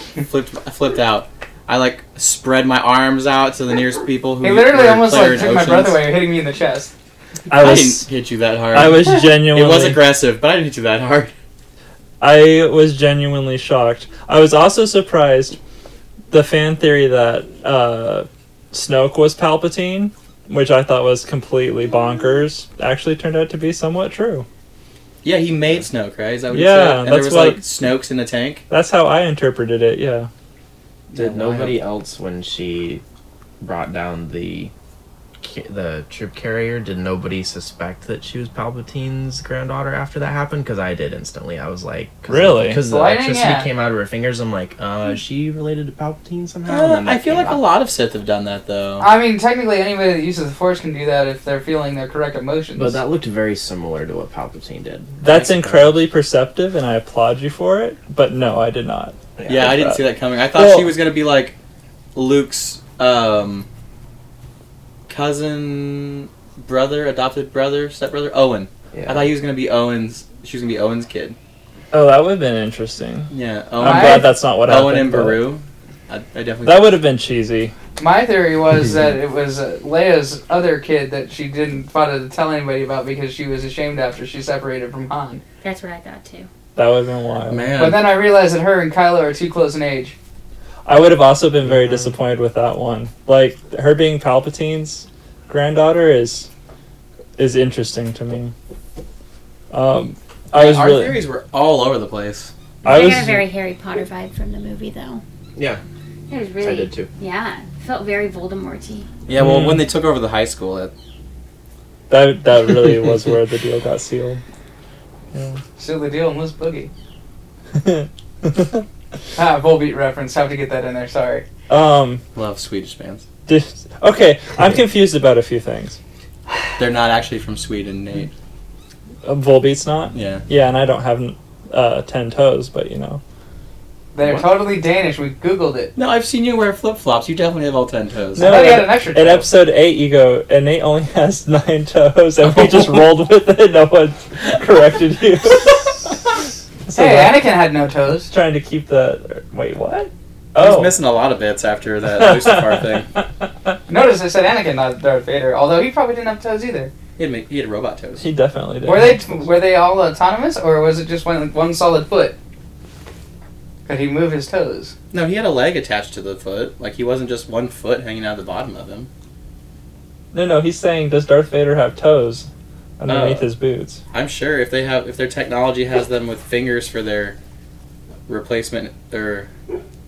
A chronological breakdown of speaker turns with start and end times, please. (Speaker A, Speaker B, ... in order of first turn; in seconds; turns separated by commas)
Speaker A: 0.1-6.1, Speaker B: 4.4-6.9, Speaker C: 7.5-8.1, Speaker A: 7.5-11.3, Speaker C: 8.7-10.0, Speaker C: 12.2-15.6, Speaker C: 16.3-24.5, Speaker A: 25.2-28.6, Speaker C: 26.5-27.6, Speaker C: 28.7-30.3, Speaker A: 31.1-31.8, Speaker D: 31.1-33.0, Speaker D: 33.6-34.7, Speaker D: 35.4-47.6, Speaker C: 42.3-42.8, Speaker B: 42.8-43.7, Speaker A: 46.6-49.1, Speaker B: 49.0-53.0, Speaker D: 52.8-55.8, Speaker C: 55.2-60.9, Speaker A: 55.3-55.8, Speaker D: 59.4-59.7, Speaker A: 59.5-61.6, Speaker A: 62.1-63.7, Speaker A: 65.1-71.4, Speaker D: 68.9-69.3, Speaker C: 71.9-75.5, Speaker A: 73.3-77.0, Speaker B: 73.8-74.4, Speaker C: 76.6-77.7, Speaker B: 78.0-85.4, Speaker E: 85.6-86.5, Speaker C: 86.8-87.9, Speaker A: 87.5-88.2, Speaker B: 87.8-90.2, Speaker C: 90.9-96.5, Speaker C: 97.4-98.5, Speaker C: 99.7-101.2, Speaker A: 100.5-102.5, Speaker C: 102.8-103.5, Speaker E: 102.8-105.2, Speaker D: 105.6-105.8, Speaker E: 106.3-109.1, Speaker D: 106.6-107.1, Speaker A: 109.3-110.9, Speaker C: 109.3-109.9, Speaker C: 112.1-114.4, Speaker C: 115.3-115.6, Speaker B: 115.8-116.9, Speaker C: 117.8-118.8, Speaker B: 119.3-121.5, Speaker C: 121.7-122.2, Speaker A: 122.3-123.2, Speaker C: 123.5-126.0, Speaker A: 126.8-128.3, Speaker C: 129.2-133.2, Speaker A: 130.1-130.4, Speaker B: 134.1-135.9, Speaker A: 135.9-138.8, Speaker C: 138.4-146.3, Speaker B: 138.4-139.5, Speaker C: 146.9-147.5, Speaker B: 146.9-148.3, Speaker C: 148.3-150.9, Speaker A: 150.5-153.1, Speaker C: 152.2-152.8, Speaker B: 153.9-156.9, Speaker A: 157.2-158.2, Speaker C: 158.2-159.2, Speaker B: 158.8-162.4, Speaker B: 163.9-164.9, Speaker A: 165.1-169.1, Speaker C: 170.3-172.5, Speaker C: 173.0-174.0, Speaker A: 173.1-173.5, Speaker A: 174.1-177.4, Speaker A: 178.3-179.5